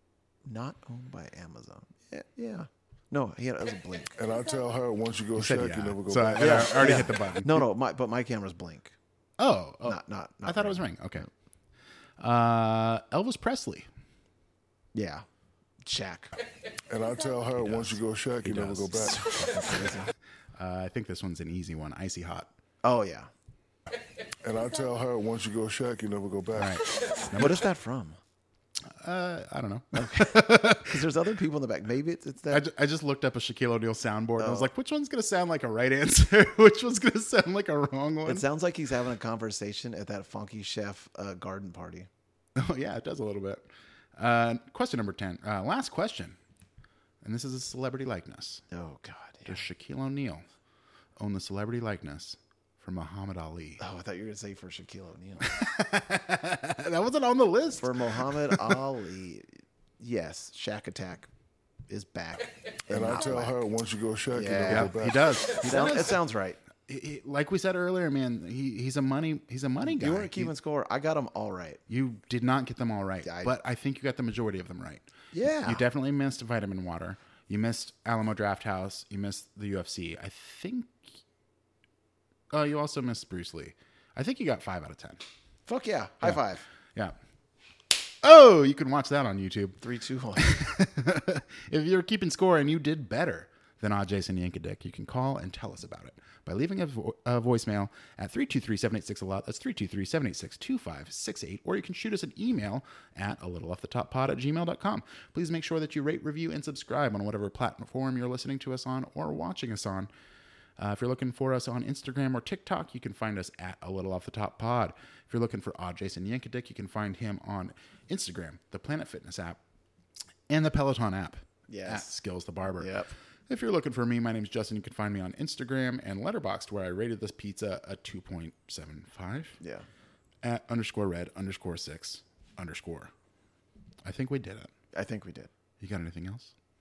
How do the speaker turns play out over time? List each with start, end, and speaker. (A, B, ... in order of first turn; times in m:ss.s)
0:00.4-0:04.1 A
0:04.2-0:07.1 B
0:05.3-0:07.7 C
0:06.4-0:08.9 A
0:09.4-0:11.3 C
0:09.8-0:11.3 A
0:12.2-0:13.9 C
0:14.9-0:15.2 A
0:15.8-0:16.3 A
0:16.9-0:19.2 B
0:17.6-0:19.2 C
0:19.0-0:20.1 A
0:20.6-0:22.5 C
0:22.8-0:23.3 A
0:24.4-0:26.8 B
0:26.5-0:27.7 C
0:27.3-0:28.2 A
0:28.8-0:31.1 C
0:29.9-0:32.6 A
0:32.5-0:38.4 C
0:34.4-0:34.7 A
0:38.2-0:42.1 A
0:42.5-0:46.4 C
0:47.2-0:48.6 C
0:48.7-0:49.6 A
0:49.4-0:50.4 C
0:51.2-0:53.8 C
0:53.8-0:55.6 A
0:55.4-0:58.8 C
0:57.8-1:01.3 A
1:01.9-1:03.6 A
1:02.9-1:05.2 B
1:04.3-1:05.0 A
1:04.7-1:06.2 C
1:05.6-1:06.6 A
1:06.8-1:10.5 C
1:09.8-1:11.8 A
1:11.9-1:15.0 C
1:13.2-1:13.5 A
1:15.3-1:15.8 A
1:15.6-1:21.2 C
1:22.5-1:25.2 C
1:25.7-1:26.6 A
1:28.2-1:29.8 C
1:29.8-1:30.5 A
1:30.4-1:50.1 C
1:50.8-1:59.6 C
2:00.5-2:02.9 C
2:01.7-2:02.1 A
2:02.8-2:03.1 A
2:03.5-2:09.6 C
2:09.6-2:09.9 A
2:10.4-2:13.1 C
2:14.0-2:14.7 C
2:14.9-2:15.5 A
2:15.8-2:16.5 C